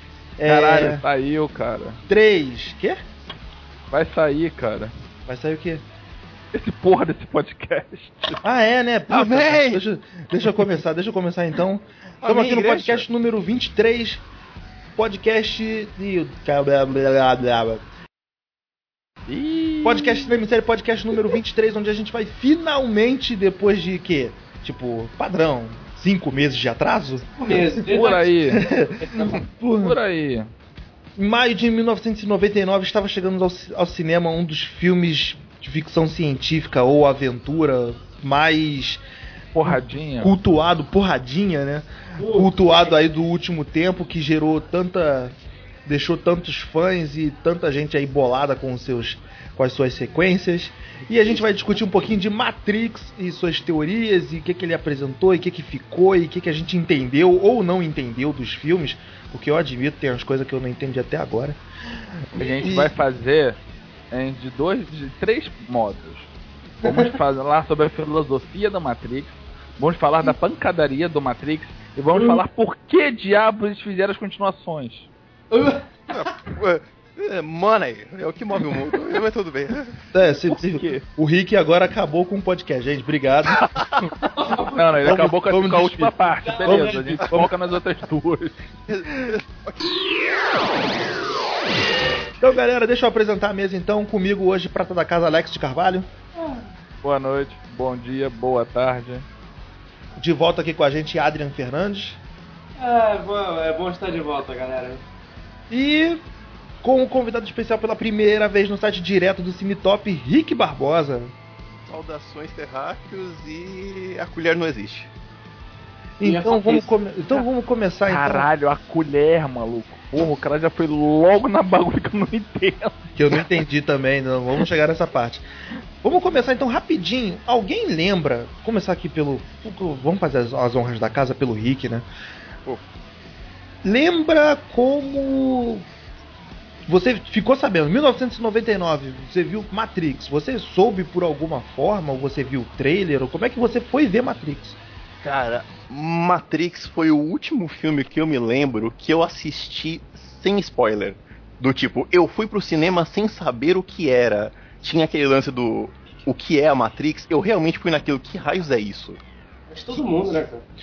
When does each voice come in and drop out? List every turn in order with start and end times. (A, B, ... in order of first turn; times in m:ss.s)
0:00.4-0:01.0 A
0:00.4-0:02.0 B
0:02.0-0:03.0 A
0:03.9-0:04.9 B
0:05.2-0:05.8 A
0:06.5-0:08.4 B
0:08.4-0:14.2 A
0:09.1-0:09.8 C
0:12.2-0:13.0 C
0:14.9-0:17.8 A
0:19.3-0:20.4 B
0:19.8-0:27.6 A
0:27.4-0:29.4 D
0:27.9-0:28.6 B
0:28.5-0:30.0 A
0:29.8-0:30.5 B
0:31.2-0:39.0 A
0:39.5-0:40.3 B
0:39.6-1:01.6 A
0:42.2-0:42.8 D
1:02.3-1:02.9 A
1:02.3-1:03.6 B
1:04.1-1:06.3 B
1:06.8-1:15.1 B
1:06.8-1:07.1 D
1:12.1-1:12.4 D
1:15.5-1:16.2 D
1:16.1-1:20.0 C
1:20.1-1:23.7 A
1:20.5-1:21.0 B
1:24.3-1:25.2 D
1:24.7-1:28.6 B
1:25.0-1:27.5 A
1:26.4-1:27.2 D
1:28.9-1:30.0 C
1:32.4-1:36.1 A
1:36.4-1:36.7 D
1:37.0-1:39.2 B
1:40.2-1:42.2 A
1:42.8-1:45.0 D
1:45.7-1:46.2 A
1:46.8-1:51.3 A
1:51.8-1:55.1 C
1:56.2-1:58.5 A
1:56.2-1:56.9 D
1:58.1-2:03.4 B
2:03.2-2:05.5 A
2:06.0-2:12.1 A
2:13.8-2:15.8 A
2:16.8-2:24.8 A
2:25.2-2:39.2 C
2:39.7-2:40.6 D